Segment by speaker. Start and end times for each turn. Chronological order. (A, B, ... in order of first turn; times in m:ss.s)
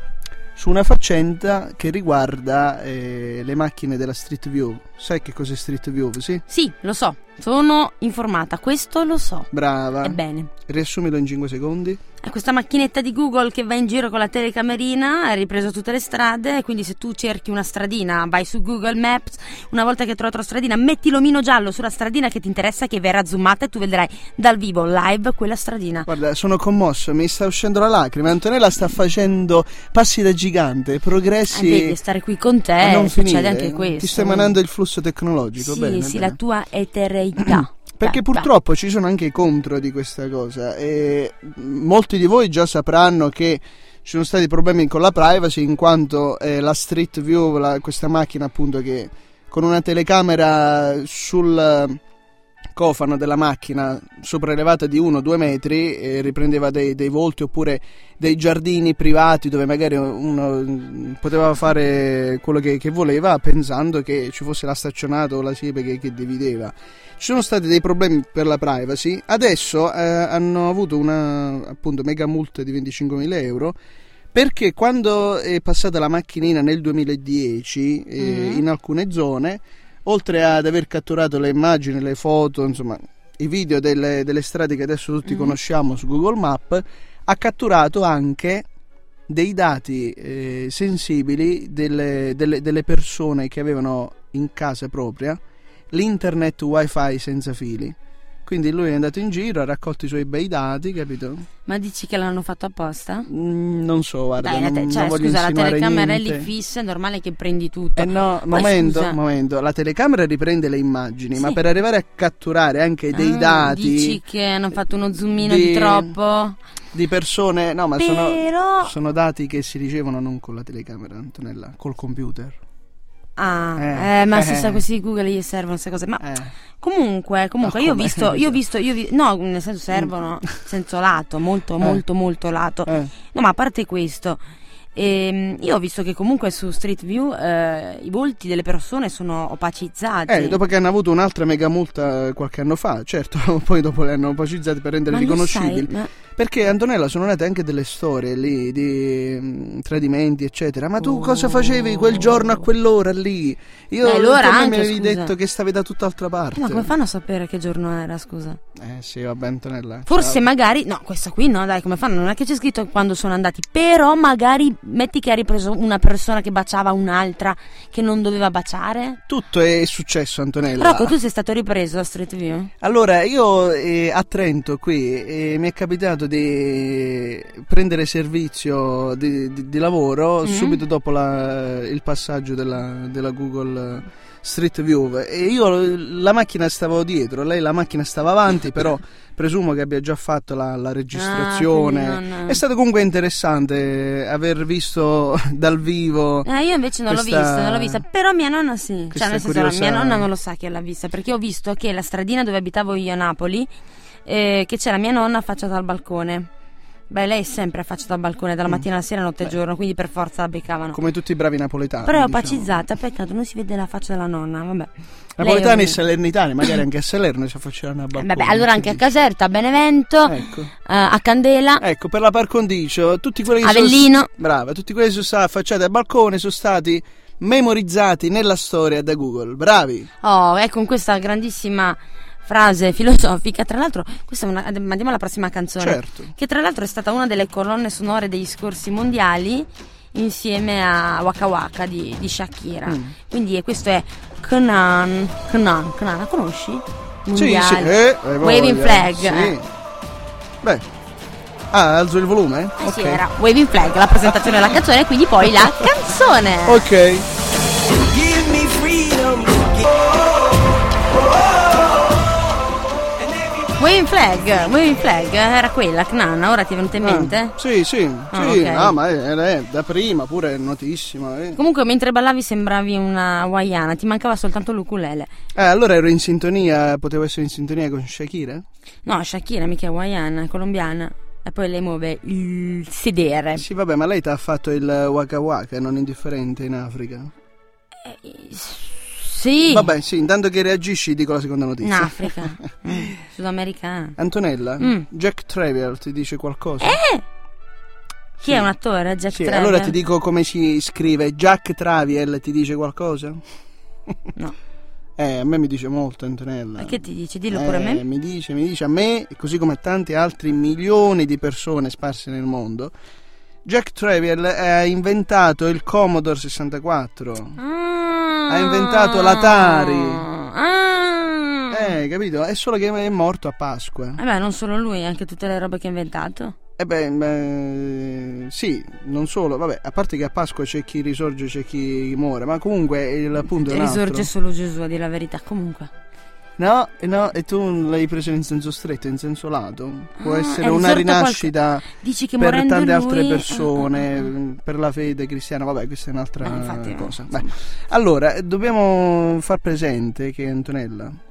0:00.6-0:06.4 A
0:06.5-0:09.5 B
0:09.5-0:12.0 A
0:10.0-0:10.5 B
0:12.2-0:26.1 B
0:26.1-0:32.0 A
0:31.5-0:34.5 B
0:32.8-0:36.4 A
0:35.6-0:38.5 B
0:37.5-0:52.0 A
0:52.8-1:13.8 A
1:14.3-1:28.7 A
1:18.2-1:18.6 B
1:25.3-1:25.6 B
1:29.3-1:35.4 A
1:35.9-1:41.4 A
1:41.7-1:43.3 B
1:43.3-1:46.5 A
1:44.4-1:49.2 B
1:48.0-1:54.2 A
1:53.1-1:56.6 B
1:55.4-1:56.2 A
1:56.9-2:02.6 A
1:58.0-1:58.9 B
2:03.4-2:14.4 B
2:03.8-2:04.8 A
2:06.2-2:06.5 A
2:07.6-2:08.6 A
2:12.9-2:13.1 A
2:15.0-2:20.6 B
2:20.3-2:36.9 A
2:25.1-2:26.1 B
2:31.0-2:32.7 B
2:34.0-2:35.3 B
2:36.6-2:38.6 B
2:38.8-2:40.4 A
2:40.1-2:49.2 B
2:49.3-2:51.1 A
2:50.8-2:52.7 B
2:52.8-3:16.5 A
3:00.4-3:00.8 B
3:11.1-3:12.6 B
3:16.4-3:23.7 B
3:17.1-3:18.0 A
3:19.1-3:20.3 A
3:24.2-3:26.5 B
3:27.1-3:31.0 B
3:30.9-3:32.7 A
3:32.0-3:36.0 B
3:35.4-3:39.0 A
3:38.2-3:41.8 B
3:40.3-3:40.7 A
3:41.8-3:50.1 A
3:43.6-3:44.3 B
3:50.2-4:09.6 B
3:55.8-3:56.3 A
4:02.9-4:03.1 A
4:07.4-4:09.7 A
4:11.7-4:13.2 A
4:12.8-4:16.9 B
4:14.2-4:14.7 A
4:16.7-4:17.3 A
4:18.2-4:19.7 A
4:23.8-4:27.6 B
4:27.0-4:31.6 A
4:28.3-4:28.9 B
4:31.6-4:35.3 B
4:35.6-4:38.6 A
4:39.0-4:43.6 B
4:43.6-4:47.3 A
4:48.0-4:49.9 B
4:49.7-4:52.4 A
4:51.8-4:54.2 B
4:54.2-4:57.0 A
4:54.8-4:55.1 B
4:56.8-4:57.2 B
4:58.4-5:00.0 B
4:58.4-4:58.7 A
4:59.3-5:03.4 A
5:05.2-5:07.0 A
5:06.8-5:08.0 B
5:07.5-5:12.9 A
5:13.6-5:17.6 A
5:17.6-5:21.9 B
5:18.5-5:20.2 A
5:21.7-5:24.2 A
5:24.2-5:26.6 B
5:26.8-5:34.3 A
5:33.6-5:35.9 B
5:36.6-5:41.9 A
5:40.2-5:44.1 B
5:42.4-5:51.2 A
5:46.4-5:47.5 B